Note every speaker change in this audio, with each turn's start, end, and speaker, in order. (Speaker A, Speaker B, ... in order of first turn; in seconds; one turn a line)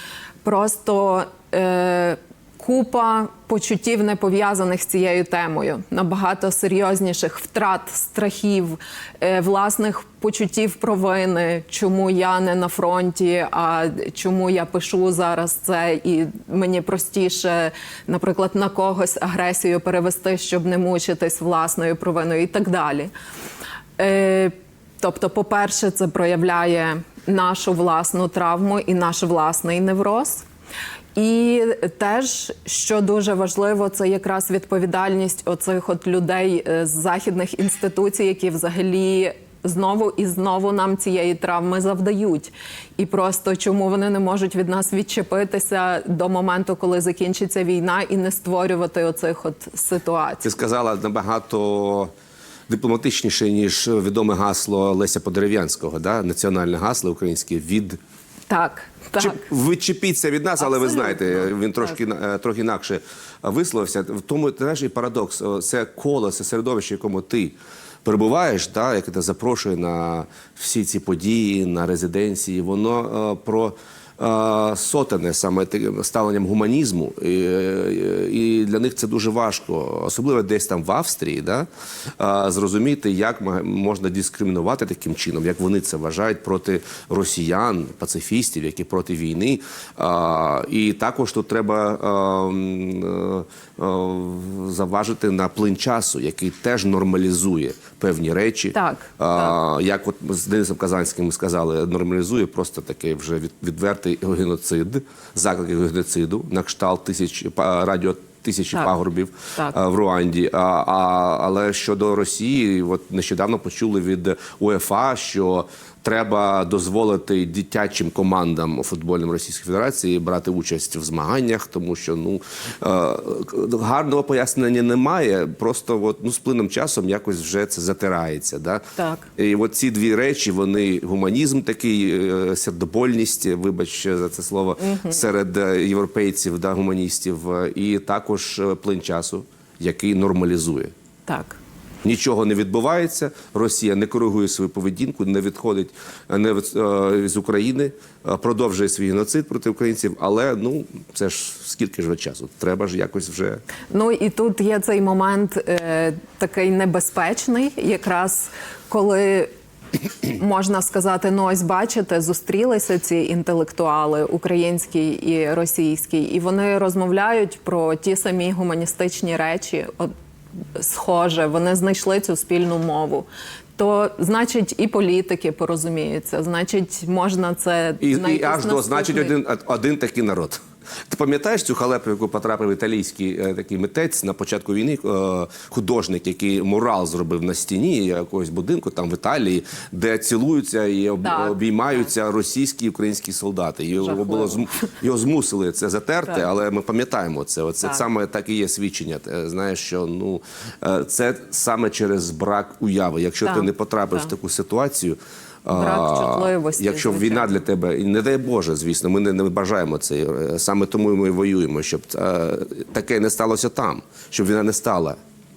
Speaker A: 0.4-23.1
Speaker A: 24.0-30.5
Speaker A: 31.2-50.5
Speaker B: 50.4-52.1
Speaker B: 52.7-58.0
Speaker A: 58.5-59.4
Speaker B: 59.2-81.7
Speaker A: 60.6-61.9
Speaker B: 82.2-140.9
Speaker A: 98.8-99.5
Speaker A: 129.0-129.3
Speaker A: 134.8-135.2
Speaker A: 141.3-141.6
Speaker B: 142.0-153.6
Speaker A: 153.9-159.5
Speaker A: 160.3-170.1
Speaker A: 170.8-179.3
Speaker B: 178.0-215.2
Speaker A: 191.2-192.1
Speaker A: 194.0-194.6
Speaker A: 203.4-204.3
Speaker A: 205.7-207.5